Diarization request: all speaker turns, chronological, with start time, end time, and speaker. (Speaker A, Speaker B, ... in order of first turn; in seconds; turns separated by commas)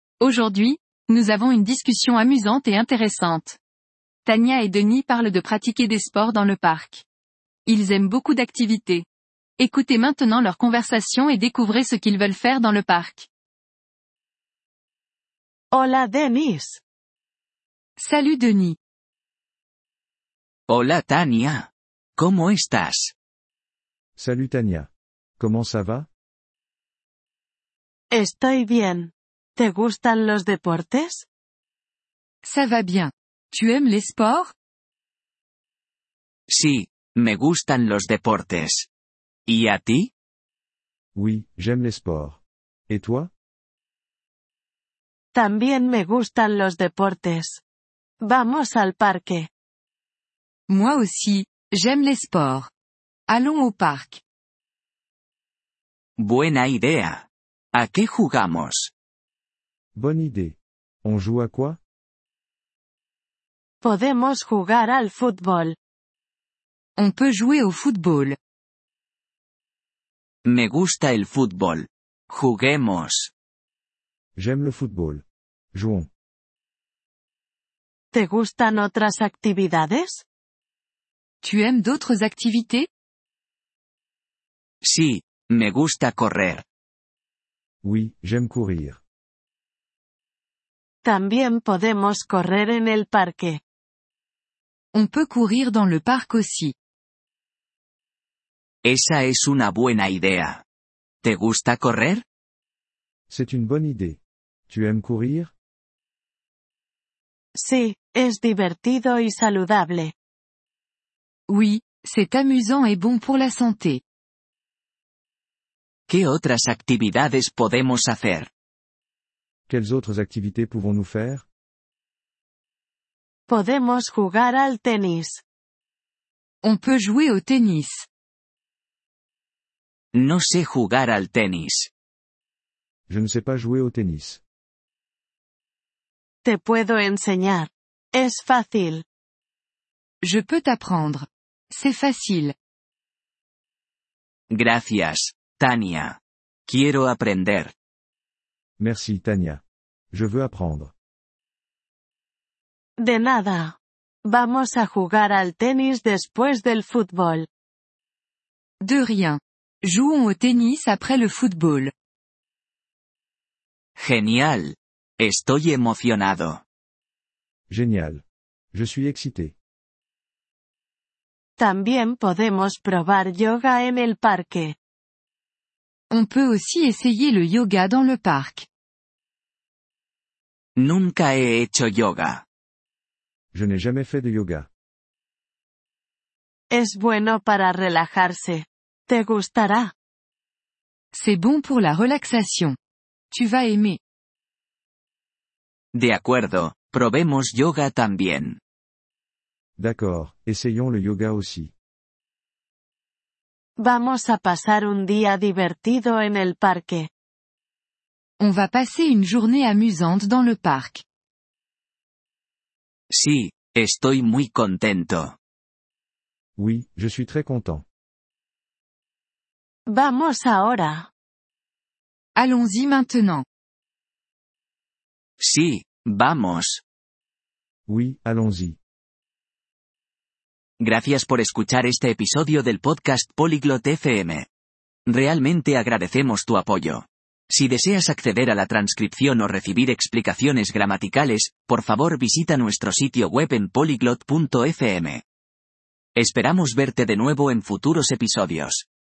Speaker A: 0.2-3.6, Speaker A: 4.2-7.0, Speaker A: 7.7-9.1, Speaker A: 9.6-13.3, Speaker B: 15.7-16.8, Speaker A: 18.0-18.8, Speaker C: 20.7-23.1, Speaker D: 24.2-26.1, Speaker B: 28.1-31.3, Speaker A: 32.4-34.5, Speaker C: 36.5-38.9, Speaker C: 39.5-40.1, Speaker D: 41.1-43.3, Speaker B: 45.3-47.6, Speaker B: 48.2-49.5, Speaker A: 50.7-52.7, Speaker A: 53.3-54.2, Speaker C: 56.2-58.9, Speaker D: 59.9-61.8, Speaker B: 63.8-65.8, Speaker A: 67.0-68.4, Speaker C: 70.4-73.3, Speaker D: 74.3-76.1, Speaker B: 78.1-80.2, Speaker A: 81.4-82.9, Speaker C: 84.8-86.6, Speaker D: 87.8-89.0, Speaker B: 91.0-93.6, Speaker A: 94.9-96.7, Speaker C: 98.8-100.6, Speaker C: 101.2-102.2, Speaker D: 103.3-105.5, Speaker B: 107.5-110.1, Speaker A: 111.5-114.0, Speaker C: 116.1-118.5, Speaker D: 119.7-121.5, Speaker B: 123.5-125.4, Speaker A: 126.6-128.1, Speaker C: 130.1-131.9, Speaker D: 133.1-134.4, Speaker B: 136.4-139.0, Speaker A: 140.2-142.5, Speaker C: 144.5-147.7, Speaker D: 148.8-150.9, Speaker B: 153.0-157.5, Speaker A: 158.8-161.9, Speaker C: 164.0-166.6, Speaker D: 167.7-169.5, Speaker B: 171.6-174.8, Speaker A: 176.1-178.7, Speaker C: 180.8-182.4, Speaker D: 183.5-184.7, Speaker B: 186.7-189.9, Speaker A: 191.1-192.8, Speaker A: 193.3-194.0, Speaker C: 195.9-198.6, Speaker D: 199.8-201.7, Speaker B: 203.8-207.1, Speaker A: 208.4-211.0, Speaker C: 213.1-215.4, Speaker D: 216.6-217.8, Speaker B: 219.9-221.1, Speaker A: 222.3-223.4, Speaker C: 225.4-226.8, Speaker D: 227.9-228.8, Speaker C: 230.8-234.5, Speaker C: 235.1-245.2, Speaker C: 246.2-248.9